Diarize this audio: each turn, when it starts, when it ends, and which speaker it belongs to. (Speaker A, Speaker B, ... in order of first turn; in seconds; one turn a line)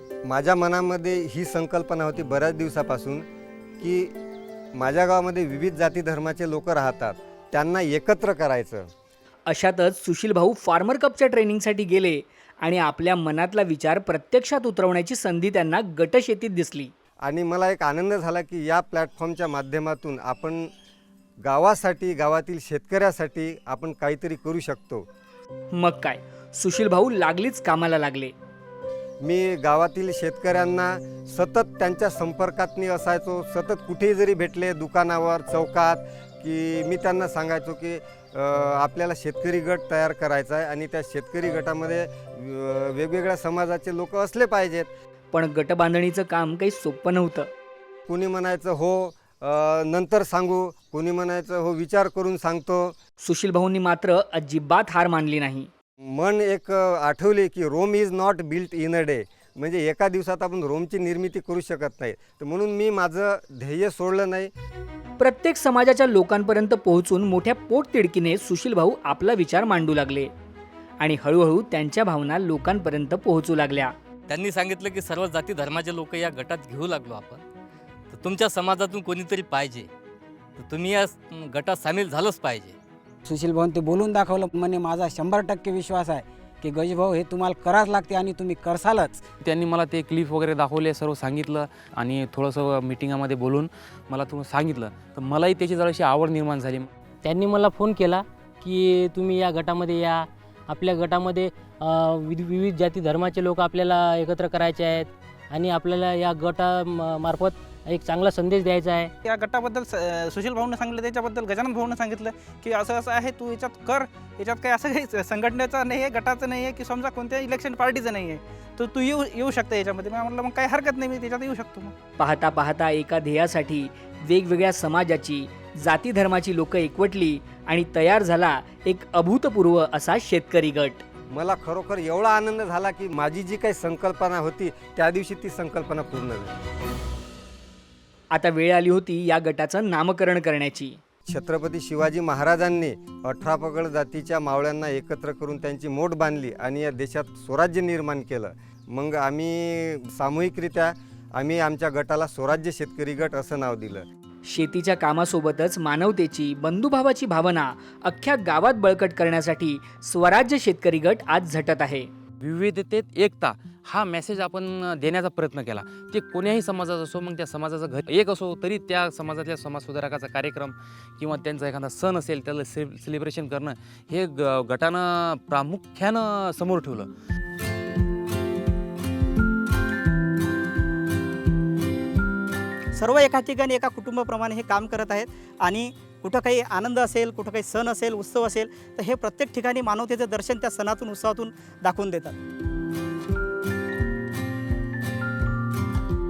Speaker A: 0.3-3.2
Speaker A: 3.8-4.1
Speaker A: 4.8-8.9
Speaker B: 9.5-16.9
Speaker A: 17.2-20.7
Speaker A: 21.4-25.0
Speaker B: 25.8-28.3
Speaker A: 29.2-44.9
Speaker B: 45.3-47.5
Speaker A: 48.1-53.0
Speaker B: 53.2-55.7
Speaker A: 56.1-64.5
Speaker B: 65.2-70.3
Speaker B: 71.0-73.9
Speaker C: 74.3-77.4
Speaker C: 78.1-79.9
Speaker C: 80.6-82.8
Speaker D: 83.3-89.2
Speaker E: 89.4-96.9
Speaker F: 97.2-109.1
Speaker G: 109.2-122.0
Speaker B: 122.2-131.0
Speaker A: 131.3-136.5
Speaker B: 138.3-141.0
Speaker A: 141.3-154.0
Speaker B: 154.5-162.1
Speaker E: 162.4-177.1
Speaker H: 182.9-192.4